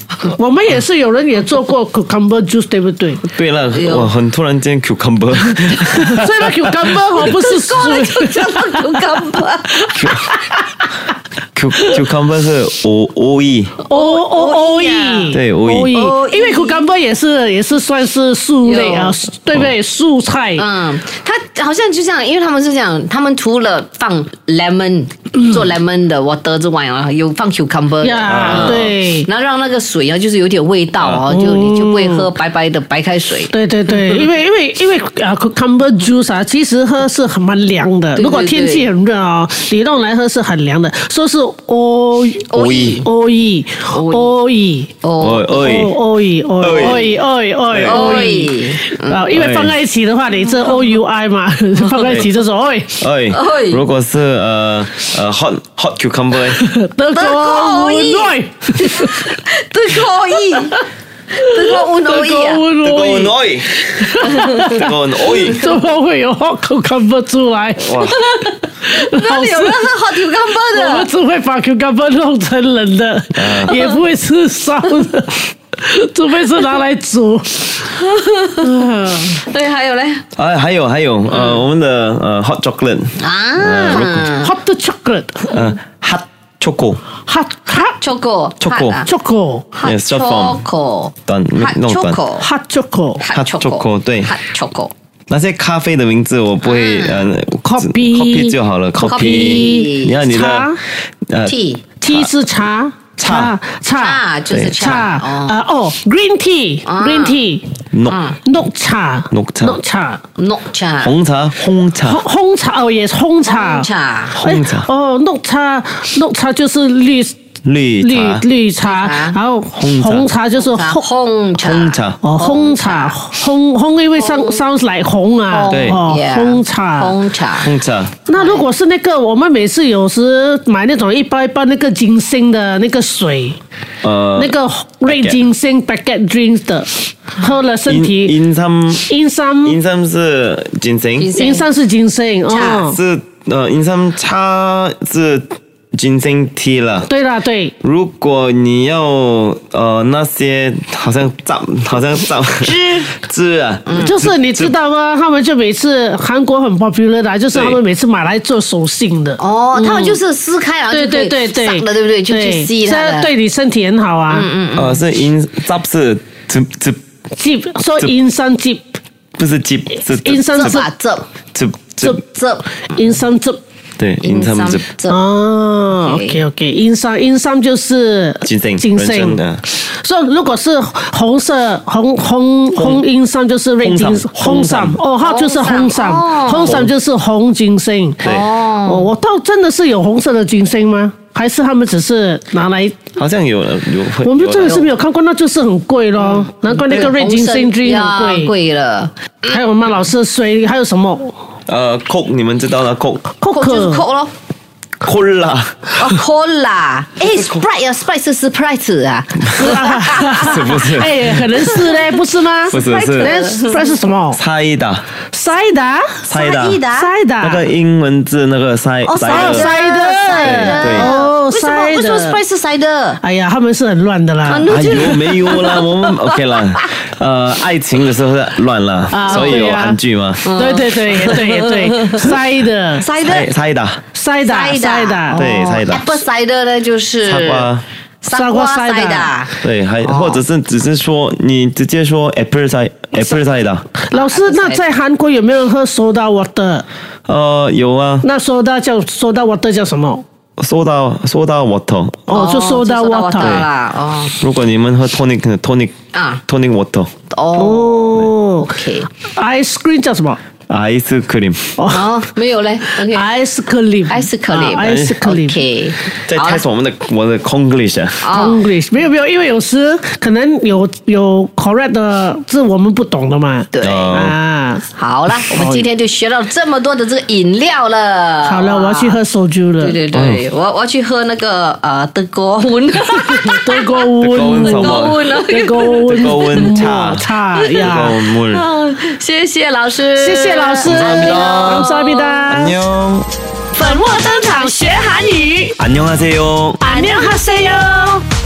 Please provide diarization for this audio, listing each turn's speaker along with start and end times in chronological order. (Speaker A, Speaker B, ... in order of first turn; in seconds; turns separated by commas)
Speaker A: 0.2-3.2, Speaker B: 3.2-7.3, Speaker C: 3.7-4.1, Speaker A: 6.0-9.1, Speaker C: 7.1-9.9, Speaker B: 9.9-10.3, Speaker B: 11.5-13.7, Speaker C: 13.8-16.8, Speaker A: 13.9-20.6, Speaker B: 15.3-15.9, Speaker C: 18.6-19.2, Speaker C: 20.6-34.0, Speaker A: 28.0-29.3, Speaker B: 28.3-28.9, Speaker A: 31.3-32.3, Speaker A: 33.5-44.9, Speaker C: 38.1-38.9, Speaker C: 42.5-43.1, Speaker B: 42.5-43.0, Speaker C: 43.9-44.4, Speaker C: 45.0-45.6, Speaker B: 45.2-46.0, Speaker A: 45.5-52.9, Speaker B: 46.6-47.1, Speaker C: 46.7-47.2, Speaker B: 47.7-48.4, Speaker C: 47.8-49.2, Speaker B: 49.3-49.8, Speaker B: 53.0-56.6, Speaker C: 53.3-53.8, Speaker A: 56.5-59.3, Speaker C: 57.1-60.8, Speaker C: 61.4-62.6, Speaker A: 61.4-68.2, Speaker B: 62.8-65.6, Speaker C: 64.2-64.5, Speaker B: 67.8-68.2, Speaker C: 68.2-71.1, Speaker A: 68.9-69.9, Speaker A: 70.5-77.9, Speaker B: 73.3-73.8, Speaker C: 77.9-80.2, Speaker A: 78.6-79.4, Speaker B: 80.3-84.3, Speaker C: 83.2-84.5, Speaker A: 84.4-85.7, Speaker B: 85.5-87.0, Speaker A: 87.3-88.0, Speaker C: 88.0-89.1, Speaker B: 88.6-89.0, Speaker A: 89.0-89.7, Speaker C: 89.7-92.5, Speaker B: 89.8-90.6, Speaker B: 91.3-92.2, Speaker A: 92.4-93.2, Speaker C: 93.2-94.9, Speaker B: 93.3-94.3, Speaker B: 95.3-100.8, Speaker C: 96.6-97.3, Speaker A: 97.6-100.8, Speaker C: 99.0-100.2, Speaker B: 101.3-101.5, Speaker C: 101.4-101.8, Speaker A: 102.0-107.6, Speaker B: 102.0-102.3, Speaker B: 103.2-103.5, Speaker C: 103.9-105.6, Speaker B: 104.5-105.0, Speaker C: 106.8-107.4, Speaker B: 107.9-108.2, Speaker C: 108.1-108.4, Speaker A: 108.4-110.2, Speaker B: 109.3-109.8, Speaker C: 110.4-111.2, Speaker B: 111.0-112.2, Speaker A: 112.0-117.3, Speaker C: 113.4-114.4, Speaker B: 114.3-114.9, Speaker B: 117.6-118.4, Speaker A: 118.0-121.0, Speaker C: 118.8-119.4, Speaker B: 119.7-120.3, Speaker C: 120.5-123.2, Speaker B: 121.6-122.2, Speaker A: 122.2-127.2, Speaker C: 124.2-124.6, Speaker C: 125.5-127.7, Speaker B: 125.7-126.0, Speaker B: 127.6-128.1, Speaker A: 128.3-133.6, Speaker C: 128.3-128.7, Speaker B: 134.0-135.4, Speaker A: 134.3-138.4, Speaker B: 137.8-139.1, Speaker A: 139.1-139.8, Speaker B: 139.6-141.3, Speaker C: 141.2-141.7, Speaker A: 141.3-143.0, Speaker C: 142.5-142.8, Speaker B: 142.6-147.1, Speaker A: 147.1-147.7, Speaker B: 147.8-154.7, Speaker C: 152.6-153.1, Speaker C: 153.9-154.1, Speaker A: 153.9-160.2, Speaker B: 157.5-157.8, Speaker C: 159.4-163.3, Speaker A: 160.9-164.5, Speaker C: 164.3-165.0, Speaker B: 164.8-167.0, Speaker A: 167.4-168.8, Speaker B: 169.4-170.9, Speaker A: 170.1-170.8, Speaker C: 170.5-171.2, Speaker B: 171.5-172.2, Speaker C: 172.3-173.0, Speaker A: 172.9-173.6, Speaker B: 174.0-174.9, Speaker C: 174.2-175.2, Speaker A: 175.1-188.3, Speaker C: 175.9-176.4, Speaker B: 178.4-179.6, Speaker B: 182.7-183.0, Speaker B: 183.8-185.0, Speaker C: 185.2-186.8, Speaker B: 186.6-186.9, Speaker C: 188.2-189.1, Speaker A: 188.8-193.1, Speaker B: 193.2-194.8, Speaker A: 194.2-198.5, Speaker C: 194.6-194.9, Speaker C: 196.2-199.1, Speaker A: 199.4-201.3, Speaker B: 201.7-203.3, Speaker A: 203.4-204.0, Speaker C: 203.5-204.3, Speaker B: 205.0-206.2, Speaker C: 205.9-210.3, Speaker B: 207.3-207.6, Speaker B: 209.5-211.4, Speaker A: 209.6-214.4, Speaker C: 212.7-213.8, Speaker B: 212.7-213.3, Speaker B: 214.3-215.0, Speaker A: 215.3-216.4, Speaker B: 216.3-216.8, Speaker C: 216.3-217.1, Speaker A: 216.9-217.6, Speaker B: 217.4-219.7, Speaker C: 219.0-223.2, Speaker A: 219.3-222.4, Speaker B: 220.4-221.1, Speaker A: 223.2-225.6, Speaker C: 224.4-226.8, Speaker B: 224.7-230.5, Speaker A: 229.1-230.0, Speaker C: 229.3-229.6, Speaker C: 230.4-232.3, Speaker A: 230.5-233.1, Speaker C: 232.9-233.5, Speaker B: 233.2-234.0, Speaker A: 234.1-235.4, Speaker C: 234.4-237.7, Speaker B: 235.3-236.2, Speaker B: 237.2-237.8, Speaker C: 238.2-240.4, Speaker A: 238.3-239.4, Speaker B: 239.6-243.8, Speaker C: 243.1-243.4, Speaker A: 244.1-246.8, Speaker C: 244.1-244.8, Speaker B: 247.3-248.2, Speaker A: 248.2-250.2, Speaker B: 250.6-252.4, Speaker A: 252.3-253.7, Speaker C: 252.3-254.3, Speaker B: 253.4-253.7, Speaker B: 254.3-255.9, Speaker C: 256.1-256.4, Speaker B: 256.5-257.1, Speaker C: 257.3-259.1, Speaker A: 257.6-258.7, Speaker A: 259.4-260.4, Speaker B: 260.7-261.8, Speaker A: 261.8-262.2, Speaker C: 261.9-263.2, Speaker A: 262.9-265.6, Speaker C: 264.1-266.6, Speaker B: 264.8-265.1, Speaker B: 266.2-268.3, Speaker C: 268.2-268.6, Speaker A: 268.3-275.9, Speaker C: 273.7-274.2, Speaker B: 273.8-274.4, Speaker C: 274.9-279.2, Speaker A: 278.4-280.0, Speaker C: 279.8-286.7, Speaker B: 280.1-280.4, Speaker A: 283.1-288.2, Speaker B: 284.2-285.3, Speaker B: 285.8-287.3, Speaker C: 287.5-292.5, Speaker B: 287.8-288.6, Speaker A: 290.1-292.8, Speaker B: 290.8-291.9, Speaker B: 292.5-293.3, Speaker C: 293.7-295.8, Speaker B: 295.8-296.8, Speaker A: 296.8-298.2, Speaker C: 296.8-298.2